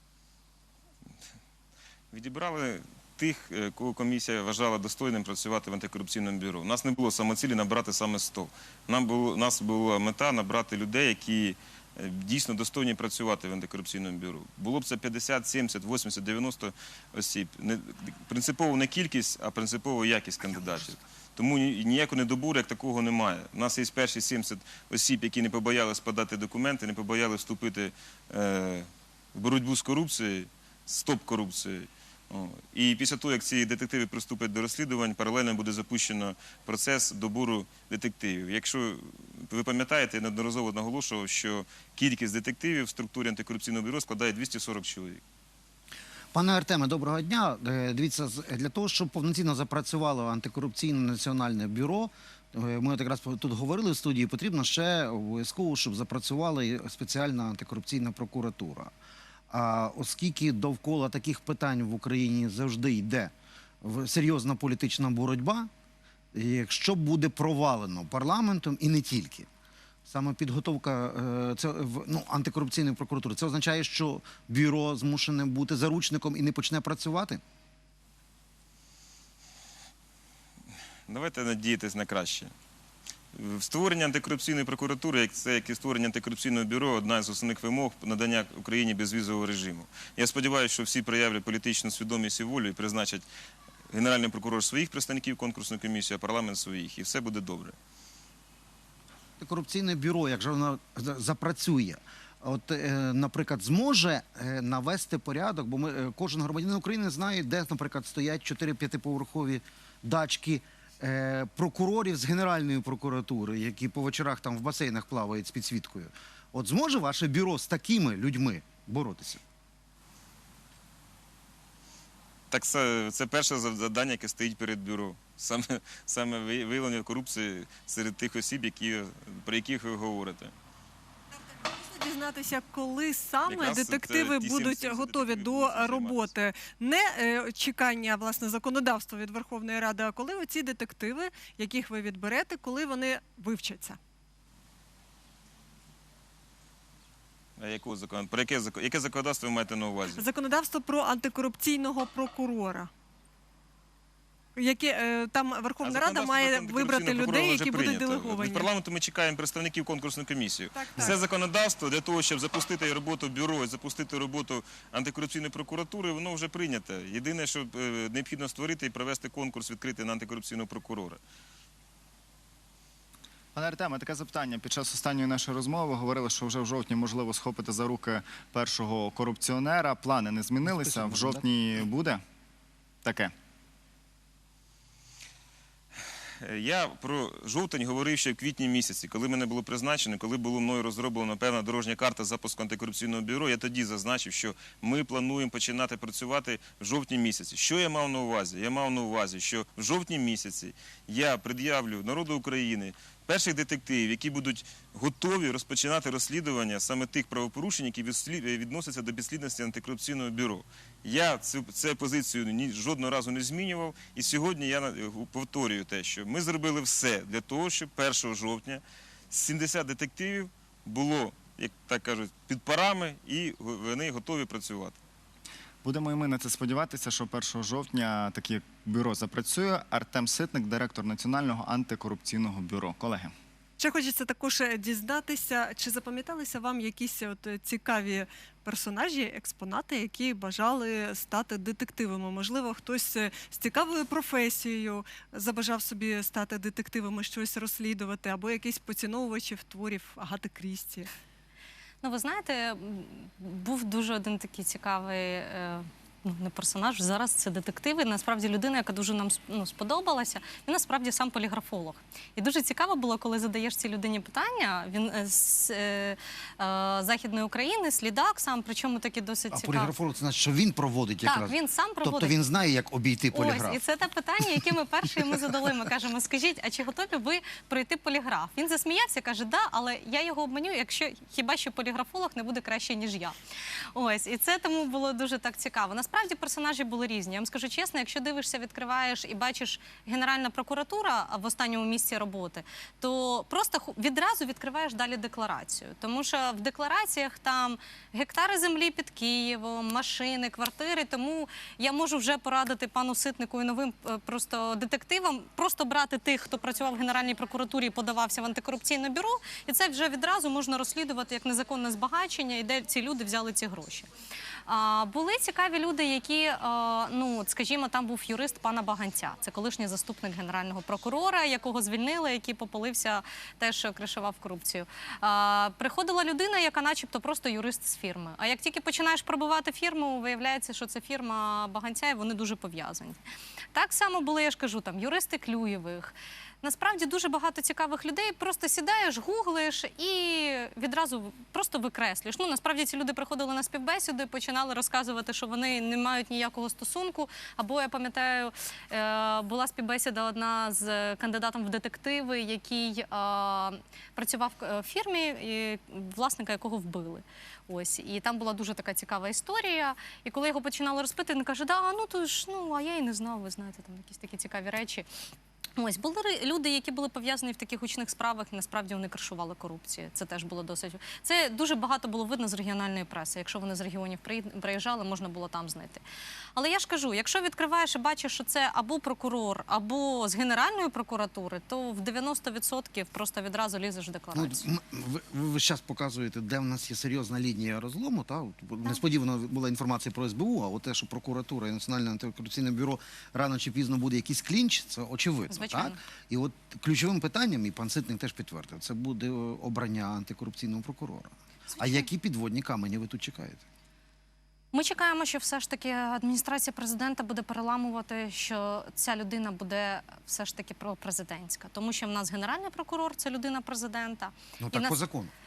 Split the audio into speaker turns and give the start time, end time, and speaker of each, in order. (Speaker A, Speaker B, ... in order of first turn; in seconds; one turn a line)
Speaker A: 2.1-45.2
Speaker B: 46.3-58.9
Speaker B: 59.5-65.7
Speaker B: 66.3-69.5
Speaker B: 70.1-77.4
Speaker A: 81.1-82.5
Speaker A: 83.3-93.2
Speaker A: 93.9-97.8
Speaker B: 99.4-119.4
Speaker A: 122.5-130.5
Speaker C: 131.5-144.0
Speaker A: 133.5-136.3
Speaker A: 147.6-150.2
Speaker C: 150.2-152.9
Speaker C: 154.6-158.7
Speaker A: 155.8-171.2
Speaker C: 160.7-161.2
Speaker D: 173.5-182.2
Speaker B: 180.6-181.4
Speaker D: 183.0-183.3
Speaker A: 186.4-225.0
Speaker D: 225.8-233.3
Speaker C: 233.8-251.1
Speaker E: 252.0-269.9
Speaker B: 269.5-273.8
Speaker E: 271.2-272.3
Speaker E: 273.3-283.4
Speaker E: 283.9-314.1
Speaker E: 314.7-333.2
Speaker E: 333.7-365.1
Speaker E: 365.8-376.0
Speaker E: 376.6-384.6
Speaker B: 384.3-403.6
Speaker E: 395.5-396.0
Speaker E: 401.7-402.1
Speaker E: 404.7-415.0
Speaker B: 414.6-415.3